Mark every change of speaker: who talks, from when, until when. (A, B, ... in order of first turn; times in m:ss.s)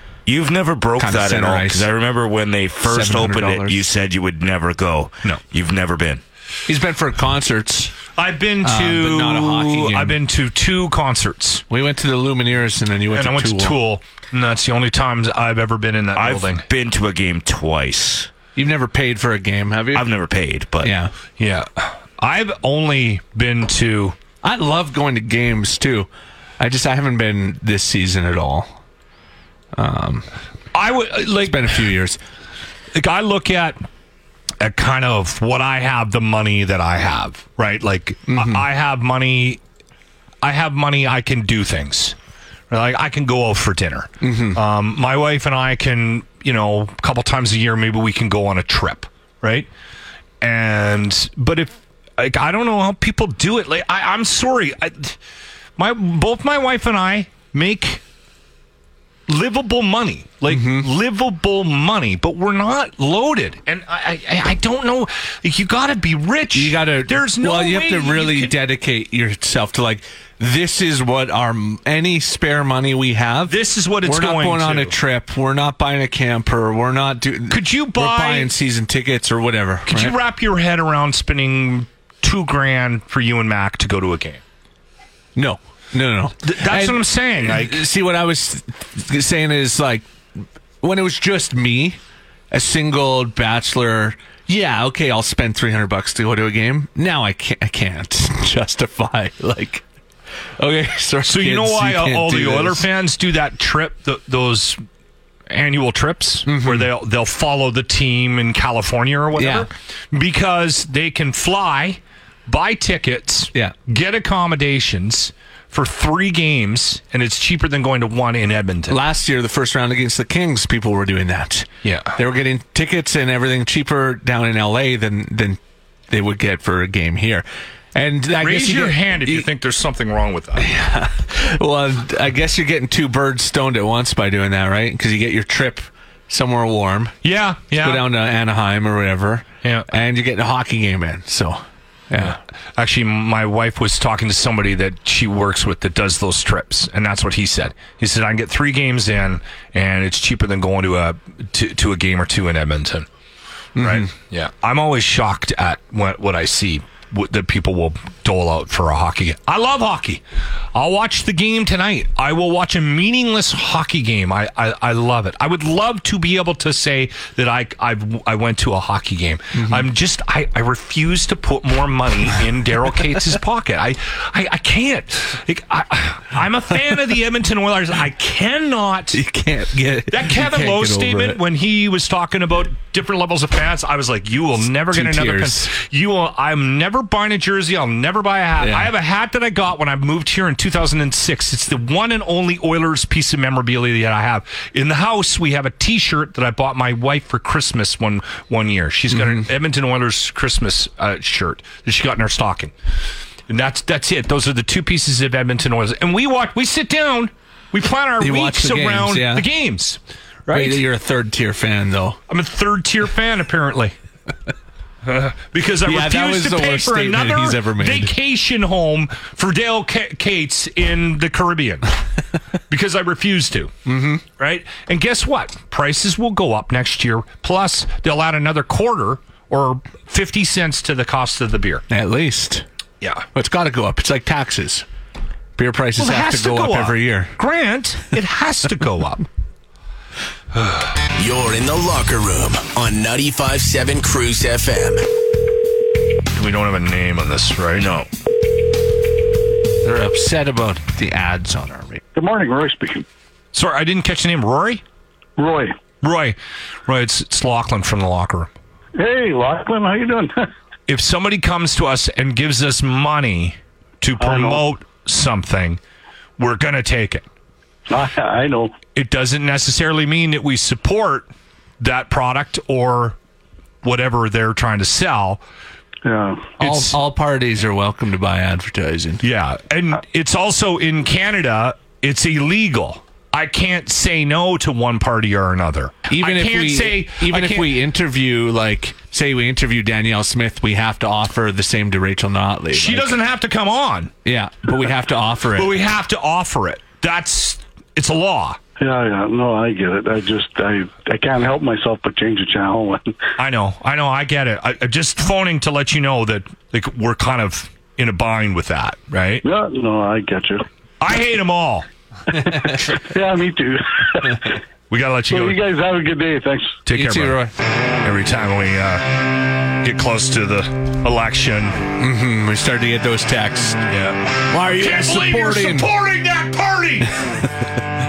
0:00.2-0:06.2 A
0:01.0-0:01.9 B
0:02.8-0:03.8 B
0:06.7-0:08.0 B
0:08.1-0:11.6 C
0:08.6-0:10.2 B
0:11.7-0:13.8 B
0:13.1-0:16.6 C
0:16.1-0:18.3 A
0:18.6-0:20.0 B
0:19.9-0:20.9 A
0:20.8-0:21.1 B
0:21.4-0:24.2 C
0:24.4-0:26.1 B
0:26.6-0:28.8 B
0:29.7-0:30.3 B
0:30.7-0:31.8 C
0:31.4-0:32.2 B
0:32.9-0:33.8 C
0:34.6-0:39.6 C
0:38.3-0:38.6 B
0:40.4-0:42.1 C
0:42.7-0:49.7 C
0:44.2-0:44.6 B
0:50.4-0:55.2 C
0:55.8-0:58.0 C
0:59.3-1:08.5 C
1:00.5-1:00.9 B
1:06.5-1:20.2 B
1:13.5-1:14.9 C
1:17.5-1:18.5 C
1:19.9-1:24.4 C
1:25.4-1:32.0 B
1:26.4-1:27.8 C
1:32.5-1:39.8 B
1:40.6-1:42.8 B
1:41.2-1:44.8 C
1:45.5-1:59.0 C
1:46.4-1:46.9 B
1:49.4-1:49.7 B
1:58.9-2:05.6 B
2:01.8-2:02.2 C
2:06.1-2:09.5 B
2:08.4-2:10.7 C
2:10.6-2:17.1 B
2:17.2-2:18.0 C
2:17.8-2:22.4 B
2:19.6-2:19.9 C
2:22.2-2:33.1 C
2:33.8-2:34.1 B
2:33.8-2:40.2 C
2:40.7-2:59.2 C
2:49.5-2:49.9 B
2:59.1-3:01.4 B
3:00.1-3:22.7 C
3:04.9-3:05.7 B
3:08.6-3:08.9 B
3:19.1-3:19.4 B
3:23.5-3:30.8 C
3:28.2-3:29.5 B
3:30.5-3:32.2 B
3:32.3-3:33.9 C
3:35.0-3:41.9 C
3:35.8-3:38.1 B
3:42.7-3:43.7 C
3:43.8-3:44.2 B
3:44.4-3:51.8 C
3:51.9-3:52.6 B
3:53.3-3:54.8 B
3:55.6-3:57.3 B
3:56.0-3:59.2 C
4:00.5-4:00.9 C
4:01.1-4:05.0 D
4:06.3-4:07.9 C
4:07.7-4:08.1 A
4:09.8-4:12.0 B
4:12.1-4:13.0 E
4:13.5-4:14.8 C
4:15.4-4:15.8 E
4:16.0-4:18.5 C
4:19.0-4:20.5 E
4:20.9-4:25.8 C
4:24.2-4:24.6 E
4:26.4-4:27.2 C
4:27.9-4:28.7 E
4:28.9-4:31.3 C
4:31.8-4:33.2 C
4:33.8-4:35.4 C
4:36.0-4:36.6 E
4:36.6-4:37.0 C
4:36.6-4:39.2 B
4:39.2-4:47.7 C
4:46.1-4:53.2 B
4:52.7-4:54.1 C
4:54.2-4:55.7 B
4:55.6-4:58.6 C
4:58.8-5:03.1 E
5:03.4-5:09.4 C
5:09.4-5:10.6 E
5:11.0-5:11.9 C
5:12.3-5:14.6 E
5:12.4-5:12.8 B
5:14.9-5:15.6 C
5:15.3-5:16.8 E
5:16.8-5:17.4 C
5:16.9-5:17.5 B
5:18.0-5:19.2 C
5:19.8-5:21.8 C
5:22.0-5:23.8 B
5:23.9-5:27.2 C
5:24.5-5:25.9 B